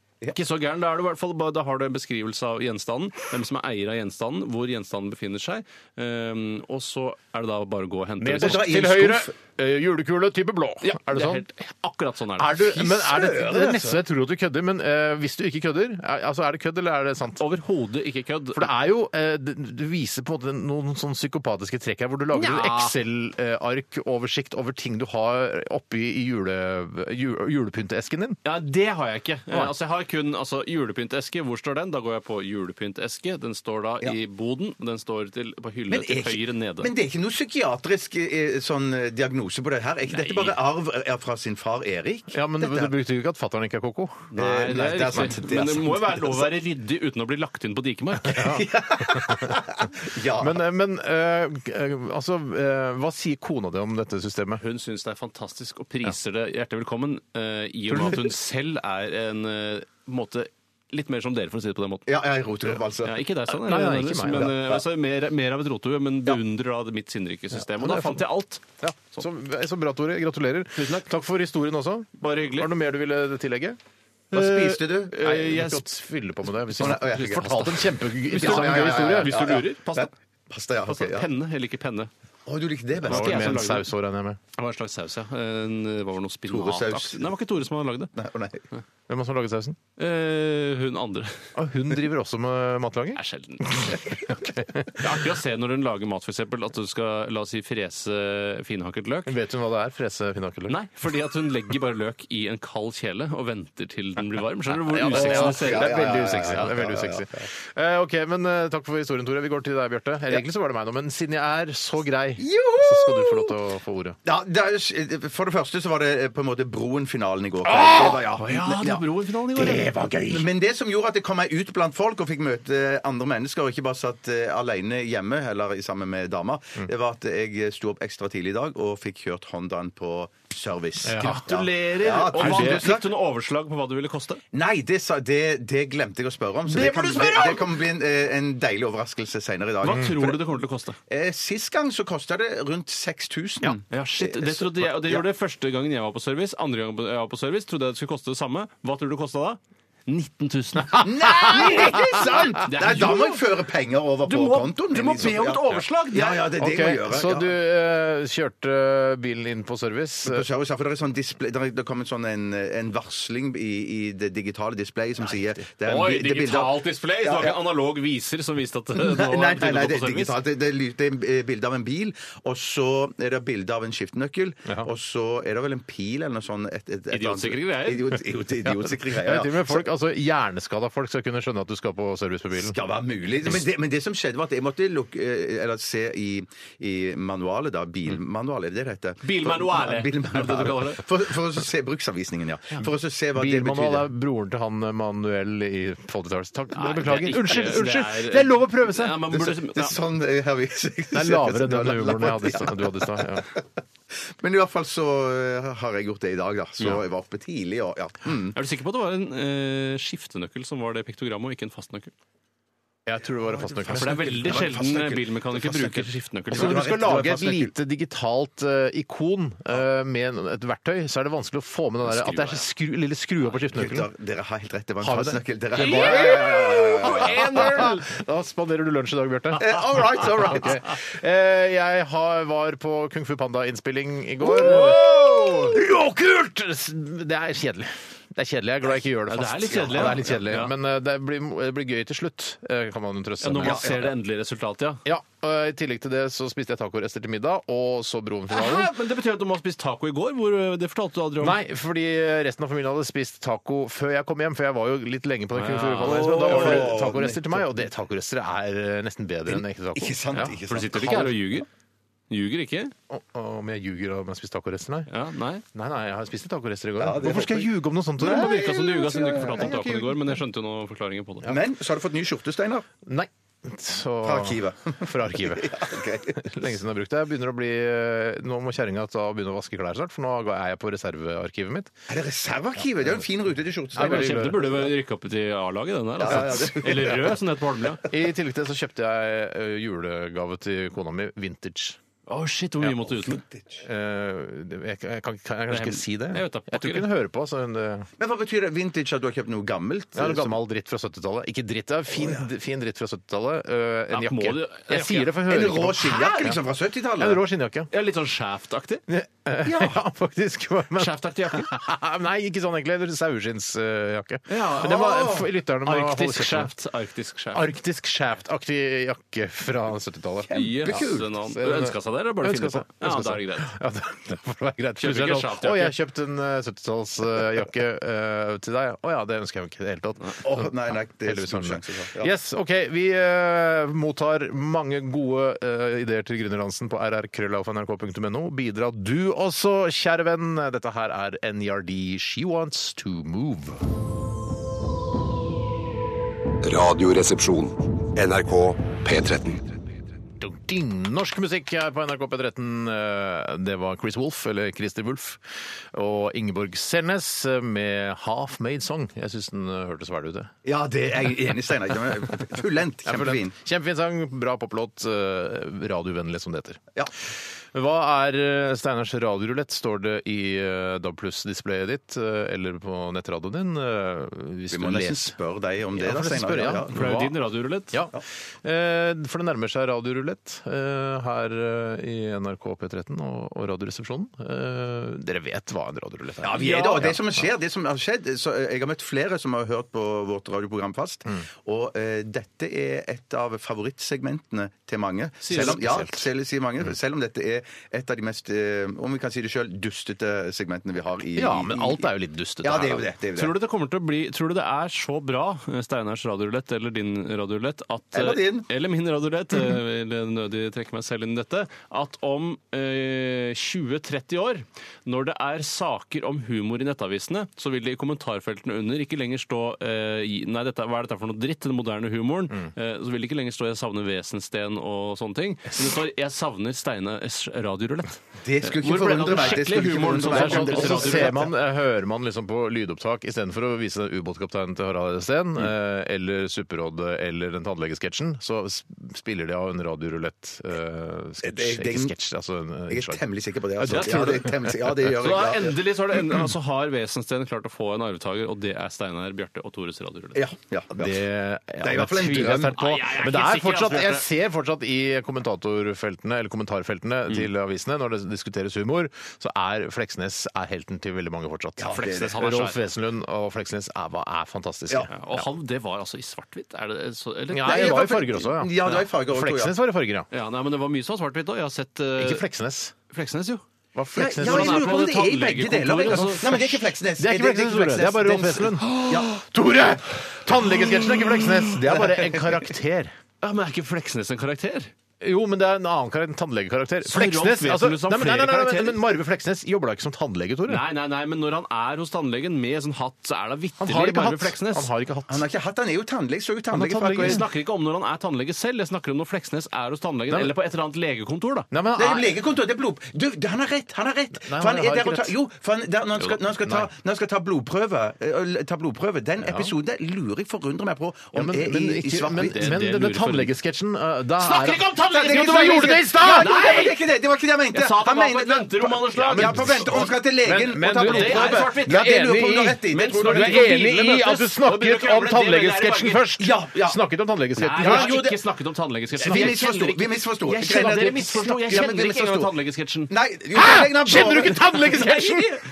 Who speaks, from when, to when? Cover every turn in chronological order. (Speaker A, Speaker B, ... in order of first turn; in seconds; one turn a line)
Speaker A: 0.3-8.8
Speaker B: 8.2-11.4
Speaker C: 8.3-9.3
Speaker A: 10.8-12.7
Speaker B: 12.4-17.4
Speaker C: 12.7-14.0
Speaker A: 17.4-18.7
Speaker B: 18.5-28.4
Speaker A: 22.3-22.9
Speaker A: 28.4-36.9
Speaker C: 35.9-42.9
Speaker A: 40.1-40.6
Speaker B: 42.3-44.3
Speaker A: 44.3-48.4
Speaker C: 44.4-46.5
Speaker B: 48.2-49.6
Speaker C: 48.3-50.6
Speaker B: 50.4-54.6
Speaker A: 54.6-62.1
Speaker B: 57.9-58.3
Speaker C: 62.1-63.2
Speaker A: 63.0-69.2
Speaker B: 63.5-64.5
Speaker C: 64.3-64.8
Speaker B: 67.5-68.2
Speaker B: 68.8-73.8
Speaker A: 70.8-71.1
Speaker A: 72.2-72.7
Speaker C: 74.3-75.2
Speaker A: 74.3-75.8
Speaker B: 75.2-79.5
Speaker A: 76.8-77.7
Speaker C: 76.8-81.3
Speaker A: 78.3-80.1
Speaker A: 80.9-82.1
Speaker C: 82.5-83.7
Speaker B: 83.0-84.4
Speaker A: 83.0-83.9
Speaker A: 84.5-88.1
Speaker C: 86.5-87.2
Speaker C: 88.1-88.6
Speaker B: 89.1-89.8
Speaker A: 90.0-91.4
Speaker B: 91.5-95.1
Speaker A: 93.2-94.2
Speaker A: 94.9-99.3
Speaker B: 99.2-100.8
Speaker A: 100.7-106.6
Speaker B: 104.7-114.2
Speaker C: 105.1-107.5
Speaker C: 112.4-113.5
Speaker C: 114.2-119.0
Speaker B: 117.6-118.2
Speaker A: 118.0-119.9
Speaker B: 119.5-120.5
Speaker C: 119.7-133.1
Speaker B: 131.0-131.4
Speaker A: 131.2-134.4
Speaker B: 132.3-132.9
Speaker C: 134.5-140.4
Speaker B: 136.7-137.7
Speaker A: 136.8-137.5
Speaker A: 139.8-141.0
Speaker C: 141.1-145.2
Speaker A: 143.9-153.4
Speaker B: 150.9-152.5
Speaker C: 151.0-157.5
Speaker A: 154.2-156.4
Speaker B: 156.5-160.4
Speaker C: 160.2-167.6
Speaker B: 165.2-165.6
Speaker A: 165.8-170.4
Speaker C: 168.9-179.8
Speaker A: 177.1-178.2
Speaker B: 178.6-182.8
Speaker C: 182.6-194.1
Speaker A: 189.2-191.0
Speaker B: 193.3-199.2
Speaker A: 196.7-199.9
Speaker C: 199.3-203.6
Speaker B: 201.1-203.5
Speaker C: 204.2-208.6
Speaker A: 208.5-212.1
Speaker B: 213.1-214.7
Speaker C: 213.6-217.7
Speaker A: 213.9-216.8
Speaker B: 216.5-224.1
Speaker A: 222.1-222.6
Speaker C: 223.7-227.9
Speaker B: 225.0-244.1
Speaker A: 225.8-228.0
Speaker C: 229.6-230.8
Speaker A: 234.4-235.5
Speaker A: 239.3-240.7
Speaker C: 239.7-240.3
Speaker A: 243.4-245.0
Speaker C: 243.6-244.1
Speaker B: 245.0-248.9
Speaker A: 248.5-251.6
Speaker B: 251.4-261.4
Speaker A: 255.5-257.0
Speaker C: 256.0-257.9
Speaker C: 259.5-261.4
Speaker A: 260.6-261.7
Speaker A: 262.3-262.9
Speaker B: 263.1-265.1
Speaker A: 265.1-265.6
Speaker B: 265.7-268.9
Speaker C: 267.0-270.1
Speaker A: 268.2-271.5
Speaker B: 269.6-270.1
Speaker C: 271.4-272.9
Speaker B: 273.0-281.9
Speaker C: 274.2-276.5
Speaker C: 282.1-284.8
Speaker B: 283.9-284.8
Speaker A: 284.0-288.0
Speaker C: 286.2-287.4
Speaker B: 286.3-287.1
Speaker B: 288.1-292.0
Speaker A: 292.3-293.4
Speaker C: 293.1-293.8
Speaker B: 293.8-298.1
Speaker A: 295.7-297.1
Speaker C: 298.2-300.6
Speaker B: 300.1-306.6
Speaker C: 302.1-302.4
Speaker A: 304.1-305.3
Speaker C: 305.4-307.4
Speaker A: 306.0-306.4
Speaker B: 307.2-307.9
Speaker A: 307.9-309.0
Speaker B: 309.1-316.7
Speaker C: 309.6-309.9
Speaker A: 310.9-311.7
Speaker A: 314.5-317.7
Speaker C: 314.9-315.4
Speaker B: 317.5-343.8
Speaker C: 320.5-321.3
Speaker A: 320.5-323.7
Speaker A: 325.0-325.9
Speaker C: 330.4-332.3
Speaker D: 346.6-349.7
Speaker B: 350.4-360.5
Speaker C: 360.6-363.5
Speaker B: 363.1-366.8
Speaker B: 367.7-375.4
Speaker C: 374.7-377.2
Speaker B: 375.9-377.4
Speaker A: 376.9-378.0
Speaker B: 377.9-387.4
Speaker C: 386.4-402.1
Speaker A: 386.5-387.1
Speaker A: 395.4-395.8
Speaker B: 395.5-396.2
Speaker B: 401.3-403.1
Speaker C: 402.6-403.5
Speaker A: 403.4-431.4
Speaker C: 408.1-408.7
Speaker C: 428.4-431.5
Speaker B: 430.2-443.2
Speaker C: 441.4-442.1
Speaker C: 442.9-445.8
Speaker B: 443.8-444.9
Speaker A: 443.8-444.5
Speaker A: 445.0-450.4
Speaker C: 450.3-451.2
Speaker B: 450.9-465.5
Speaker C: 451.8-452.8
Speaker A: 452.6-454.3
Speaker C: 461.8-462.4
Speaker A: 461.9-462.8
Speaker A: 465.1-468.1
Speaker B: 467.5-470.3
Speaker C: 467.6-469.7
Speaker A: 470.3-472.4
Speaker B: 472.2-472.9
Speaker A: 473.1-473.6
Speaker B: 473.9-475.1
Speaker C: 474.1-479.3
Speaker A: 474.4-476.8
Speaker B: 476.1-483.1
Speaker C: 481.9-482.6
Speaker A: 483.4-484.9
Speaker B: 485.2-490.8
Speaker A: 487.0-489.0
Speaker A: 490.7-494.9
Speaker B: 493.8-495.4
Speaker C: 495.3-497.4
Speaker B: 496.7-497.4
Speaker A: 497.2-501.7
Speaker B: 501.7-502.3
Speaker C: 501.9-512.6
Speaker B: 504.3-505.3
Speaker B: 506.6-506.9
Speaker B: 509.4-509.7
Speaker B: 511.3-516.7
Speaker A: 512.4-513.5
Speaker A: 514.4-517.0
Speaker C: 515.1-523.8
Speaker A: 517.7-520.1
Speaker B: 519.1-528.2
Speaker A: 521.0-522.2
Speaker A: 522.9-526.2
Speaker C: 526.4-527.0
Speaker A: 527.6-533.1
Speaker C: 527.8-528.4
Speaker C: 529.2-532.5
Speaker B: 529.2-529.6
Speaker B: 530.7-531.8
Speaker C: 533.1-535.2
Speaker B: 533.5-535.5
Speaker A: 534.8-535.6